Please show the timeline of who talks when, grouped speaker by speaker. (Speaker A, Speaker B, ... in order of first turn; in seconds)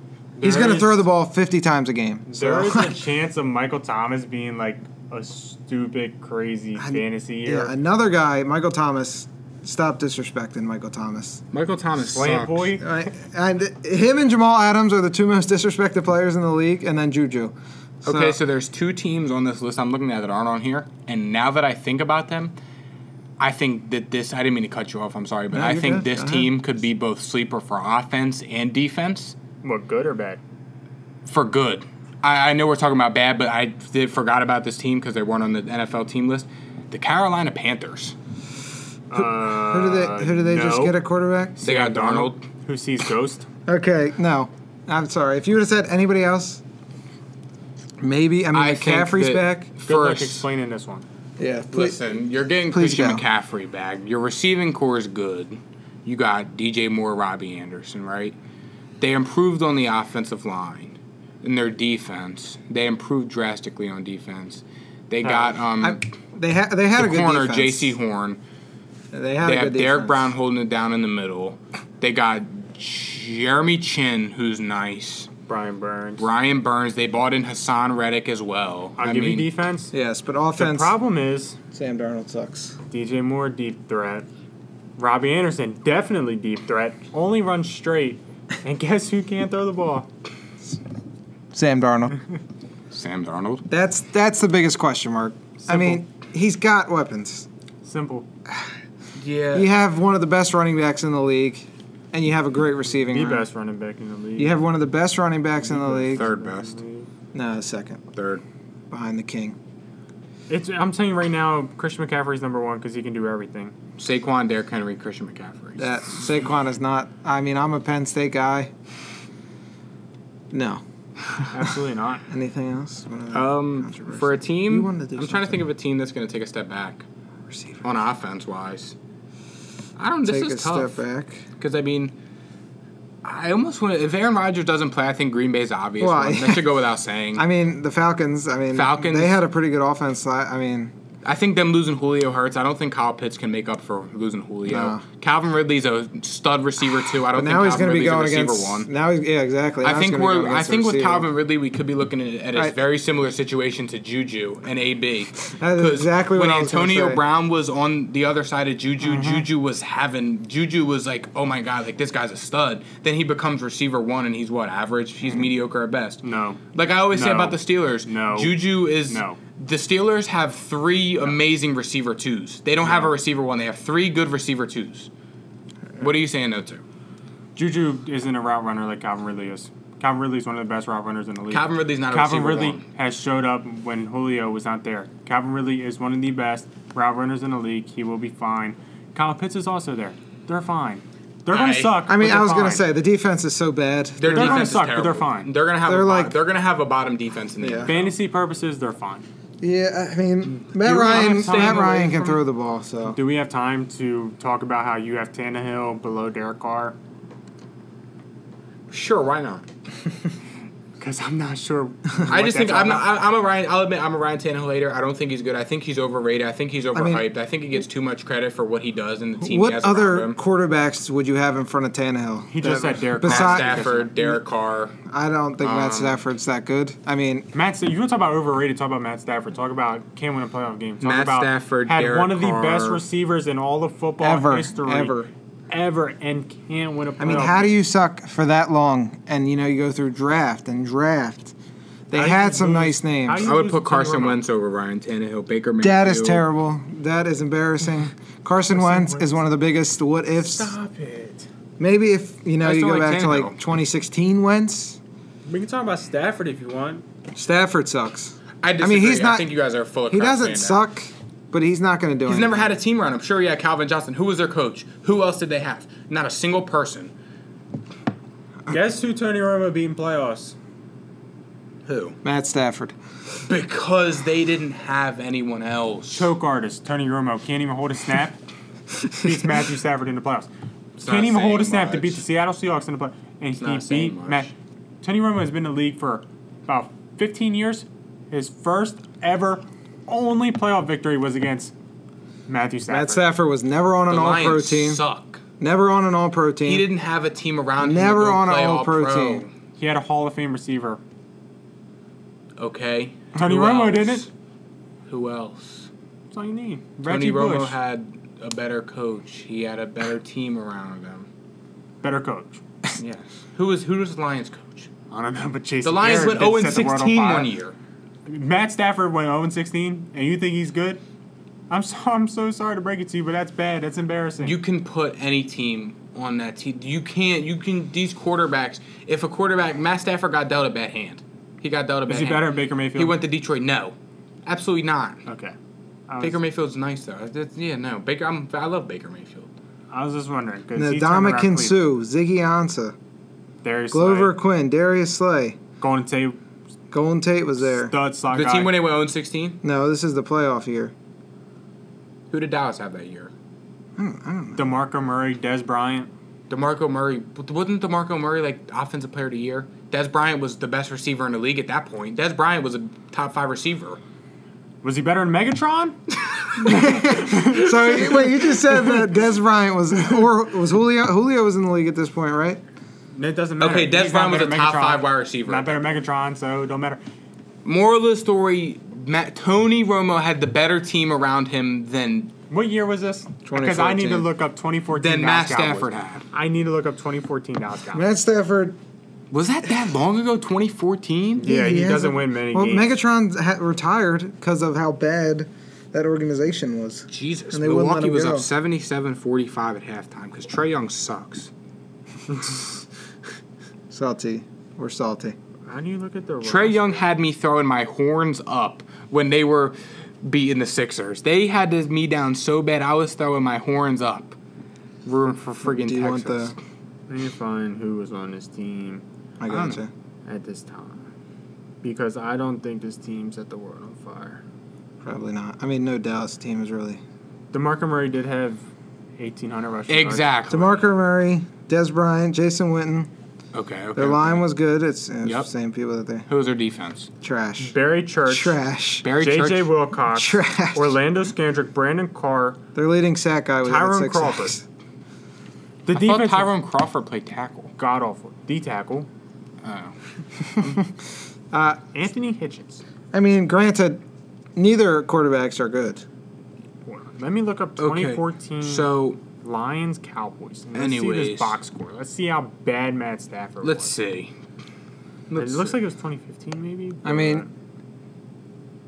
Speaker A: 0.4-1.1, 2.3-7.7, 12.0-12.9, 29.6-30.4, 39.1-41.0, 41.6-43.5, 49.9-51.0, 65.2-65.5, 75.5-76.3, 79.0-79.9, 80.6-81.6, 82.9-84.3, 85.0-90.1, 95.6-96.0, 97.8-98.3, 102.9-104.6, 105.6-107.1, 110.5-113.8, 121.5-122.2, 159.0-159.4, 166.2-166.6, 167.1-169.4, 172.8-173.1, 177.6-192.9, 194.3-195.5, 197.9-199.3, 200.8-202.2, 203.0-207.0, 211.0-213.1, 222.5-224.1, 227.5-235.2, 235.7-237.7, 242.1-244.4, 248.7-249.4, 250.3-251.5, 255.5-257.0, 268.7-270.6, 276.1-278.4, 279.1-284.5, 285.0-291.7, 292.5-293.2, 299.8-301.0, 303.4-304.3, 306.3-307.8, 312.0-312.6, 315.1-317.5, 318.3-321.0, 321.7-324.6, 332.1-333.2, 335.3-335.6, 336.1-336.4, 339.9-341.8, 343.6-344.3, 345.8-346.4, 347.6-348.7, 354.6-356.1, 364.8-366.0, 366.7-367.8, 373.1-377.0, 382.5-388.1, 391.4-392.9, 405.7-407.1, 417.1-419.0, 420.3-421.1, 421.8-424.4, 427.5-428.6, 429.2-430.3, 437.6-438.6, 439.1-442.6, 443.6-444.6, 445.9-446.5, 447.8-449.1, 451.9-452.8, 456.9-464.0, 465.4-467.5
Speaker B: 0.4-3.0, 6.8-11.4, 12.8-17.5, 18.1-18.4, 25.5-26.5, 39.4-41.6, 43.7-46.6, 48.0-49.7, 51.4-52.0, 52.7-53.2, 65.8-68.0, 69.1-70.3, 79.9-80.9, 81.7-82.8, 91.5-92.2, 93.7-97.5, 99.5-103.5, 104.4-106.3, 107.3-108.0, 108.9-109.6, 115.8-118.7, 120.5-120.8, 122.3-125.6, 127.5-127.8, 130.2-131.4, 136.0-136.8, 137.3-140.9, 144.7-145.0, 147.3-151.3, 155.4-157.2, 192.1-194.8, 195.9-196.4, 197.6-197.9, 199.6-203.2, 216.9-217.2, 219.4-224.4, 225.1-227.5, 234.2-235.3, 237.2-241.5, 242.1-243.5, 245.8-250.7, 251.8-255.0, 257.4-259.5, 260.1-262.7, 272.2-272.9, 292.9-295.0, 295.6-296.9, 297.8-299.4, 340.8-342.9, 343.9-345.6, 346.9-347.9, 349.6-350.9, 354.0-354.8, 366.6-372.6, 383.5-384.3, 387.9-388.8, 391.4-398.5, 403.9-405.4, 415.6-416.5, 419.4-419.9, 425.0-427.0, 430.5-433.1, 433.9-436.3, 437.2-437.7, 438.3-439.1, 440.1-441.0, 442.8-444.6, 450.6-450.9, 451.5-451.8, 453.1-454.0, 454.6-456.1, 467.1-467.4
Speaker C: 11.5-12.7, 18.1-22.5, 23.4-29.4, 31.3-38.2, 41.6-42.4, 48.5-50.4, 51.7-58.4, 59.0-66.0, 67.0-68.4, 69.4-75.3, 76.2-79.5, 92.9-93.7, 99.2-99.7, 106.1-106.8, 108.1-108.4, 114.0-116.0, 123.3-127.0, 127.8-128.9, 130.0-131.0, 131.6-132.1, 133.2-137.4, 138.7-139.4, 141.2-148.9, 149.8-166.2, 166.7-175.1, 176.0-176.8, 181.5-182.8, 191.5-192.0, 194.2-198.1, 200.8-202.4, 208.9-209.7, 212.3-220.4, 223.2-225.0, 225.6-226.2, 231.0-233.0, 243.4-246.4, 252.6-253.6, 258.6-260.8, 262.2-267.1, 271.9-272.2, 273.4-276.3, 281.0-282.2, 283.6-284.5, 294.1-295.4, 296.6-299.5, 302.6-304.3, 305.1-305.9, 307.1-311.3, 313.0-314.9, 315.8-317.8, 324.4-333.9, 334.5-335.2, 336.2-339.5, 348.3-349.6, 352.3-353.3, 356.5-364.0, 366.3-368.2, 373.6-375.8, 377.6-382.3, 384.9-386.2, 389.3-391.5, 397.1-401.5, 406.4-414.4, 415.1-416.6, 419.5-419.8, 429.9-430.8, 433.5-434.4, 435.2-435.5, 436.3-437.1, 439.0-439.7, 445.9-447.7, 449.6-449.9, 457.8-459.2, 460.8-461.6, 463.6-464.3, 465.3-465.8